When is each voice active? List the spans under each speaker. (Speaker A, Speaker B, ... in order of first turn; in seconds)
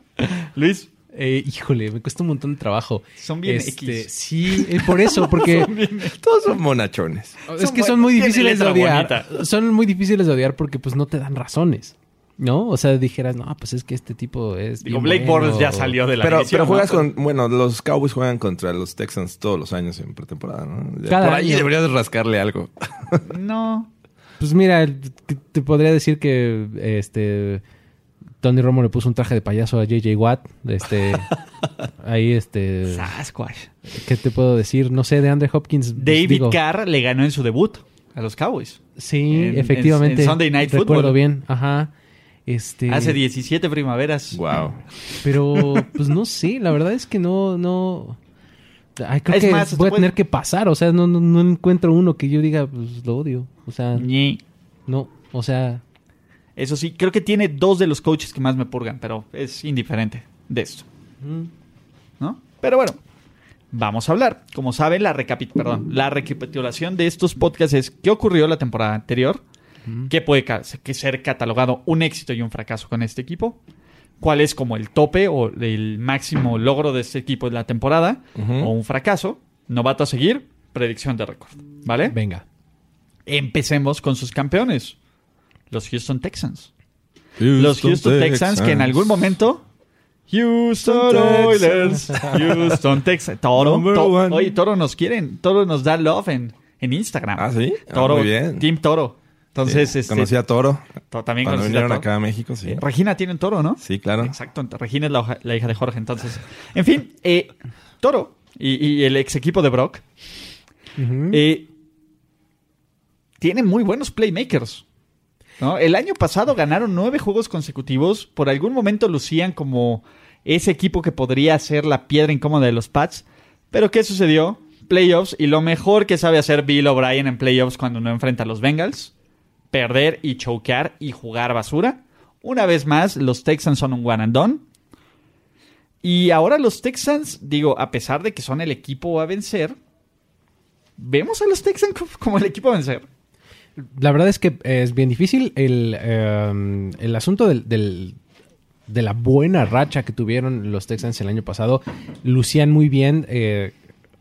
Speaker A: 0.6-0.9, 3.2-6.2, 7.5-9.3, 14.8-17.1, 23.3-23.9, 32.9-33.7, 36.0-41.2, 42.9-44.4, 49.3-50.1, 54.0-54.4, 56.6-60.9, 62.2-63.0, 63.7-69.4, 70.1-73.6, 74.2-82.2, 83.3-85.0, 85.7-86.7, 87.6-89.6, 90.3-100.3, 101.1-102.1, 102.7-110.0, 111.3-111.7, 113.4-114.8, 115.6-129.1, 129.7-134.6, 136.0-139.8, 141.0-143.1
Speaker B: 1.1-5.7, 7.5-16.0, 21.1-21.7, 24.4-27.6, 28.4-31.3, 32.0-33.1, 33.9-36.6, 39.0-41.9, 42.5-43.2, 45.2-48.2, 49.0-54.1, 54.9-55.8, 61.2-61.5, 69.9-70.1, 82.1-82.4, 111.0-111.4, 143.8-148.2, 148.9-153.8
Speaker C: 6.2-7.4, 16.2-23.2, 44.3-44.8, 78.4-78.7, 87.4-89.1, 90.9-92.8, 93.6-94.5, 97.4-98.7, 99.6-100.9, 101.4-102.8, 103.8-104.3